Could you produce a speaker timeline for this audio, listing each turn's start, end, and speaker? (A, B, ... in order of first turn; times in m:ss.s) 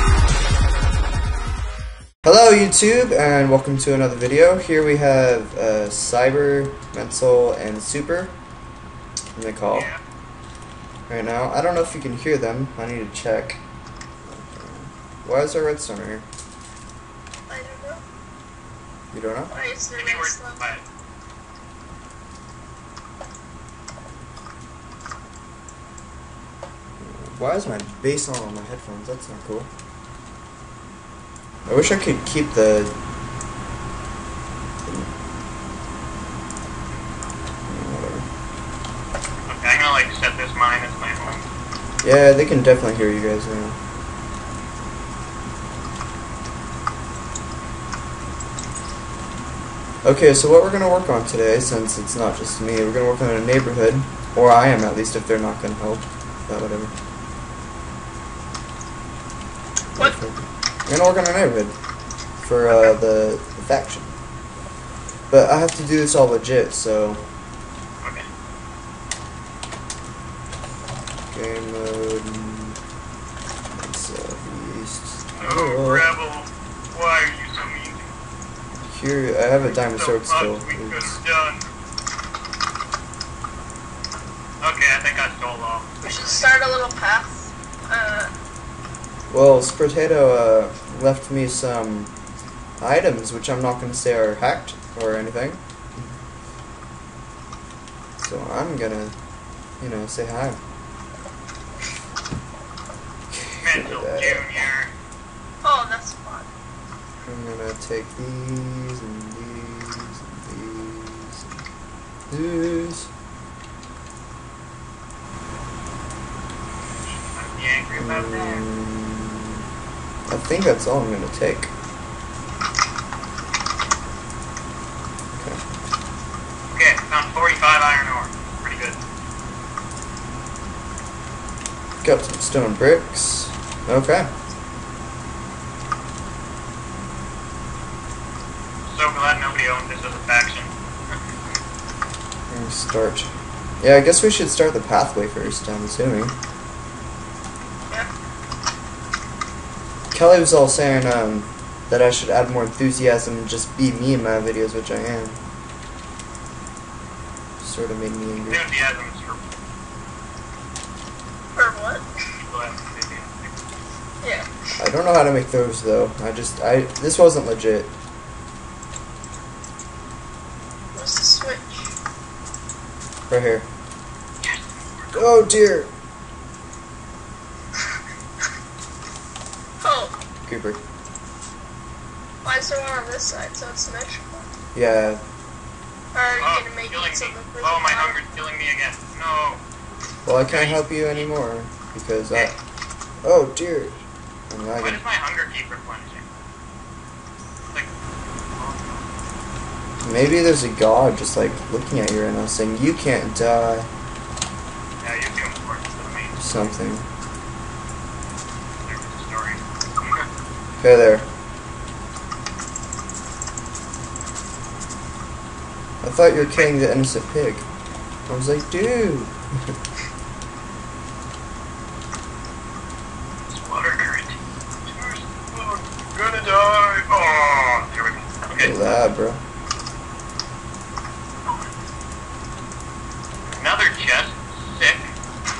0:02.2-0:08.4 A
0:09.3-0:09.9 A
0:09.7-0:10.0 B
0:11.1-0:13.6 A
0:14.2-0:16.3 A
0:17.5-0:18.0 C
0:19.1-0:19.5 A
0:19.5-0:20.6 C
0:20.0-0:20.8 B
0:27.0-0:29.7 A
0:31.6-0:33.0 A
0:34.8-0:35.1 A
0:37.7-0:38.3 A
0:39.5-0:41.5 B
0:42.0-0:43.8 A
0:50.0-0:56.9 A
0:59.9-1:01.8 A
1:02.4-1:04.1 A
1:02.7-1:03.0 B
1:05.3-1:07.2 A
1:08.0-1:08.3 B
1:11.3-1:12.8 A
1:13.7-1:16.1 A
1:15.3-1:18.1 B
1:18.8-1:21.2 A
1:19.8-1:21.7 B
1:24.6-1:26.5 B
1:26.0-1:28.3 C
1:29.3-1:32.1 A
1:32.8-1:36.2 A
1:38.2-1:39.2 A
1:39.8-1:40.6 A
1:43.3-1:44.6 A
1:43.6-1:44.9 B
1:45.6-1:46.5 C
1:47.2-1:51.5 A
1:52.3-1:53.1 A
1:57.0-1:58.6 B
1:58.0-1:59.6 A
2:00.3-2:01.7 A
2:05.4-2:05.6 A
2:06.7-2:09.0 B
2:12.0-2:14.3 A
2:18.9-2:21.2 B
2:22.5-2:26.3 A
2:30.1-2:35.4 A
2:37.6-2:38.7 A
2:38.5-2:39.4 B
2:41.6-2:42.1 C
2:42.5-2:43.6 B
2:44.2-2:44.5 C
2:44.8-2:47.9 A
2:50.9-2:51.9 C
2:53.3-2:53.7 A
2:54.4-2:55.3 B
2:55.1-2:55.9 A
2:59.8-3:00.1 C
3:00.5-3:00.8 A
3:02.4-3:04.5 C
3:04.7-3:05.2 A
3:06.1-3:08.2 C
3:06.4-3:09.6 B
3:10.2-3:12.5 A
3:10.5-3:11.3 B
3:12.3-3:12.6 B
3:13.2-3:14.0 A
3:14.5-3:15.0 A
3:14.8-3:16.3 B
3:18.5-3:19.1 B
3:20.0-3:23.9 A
3:25.0-3:26.6 B
3:26.4-3:27.1 A
3:28.8-3:30.2 B
3:30.8-3:31.3 A
3:36.0-3:37.7 A
3:36.3-3:36.8 B
3:38.3-3:39.7 A
3:43.5-3:48.8 B
3:48.6-3:49.4 A
3:53.5-3:55.1 B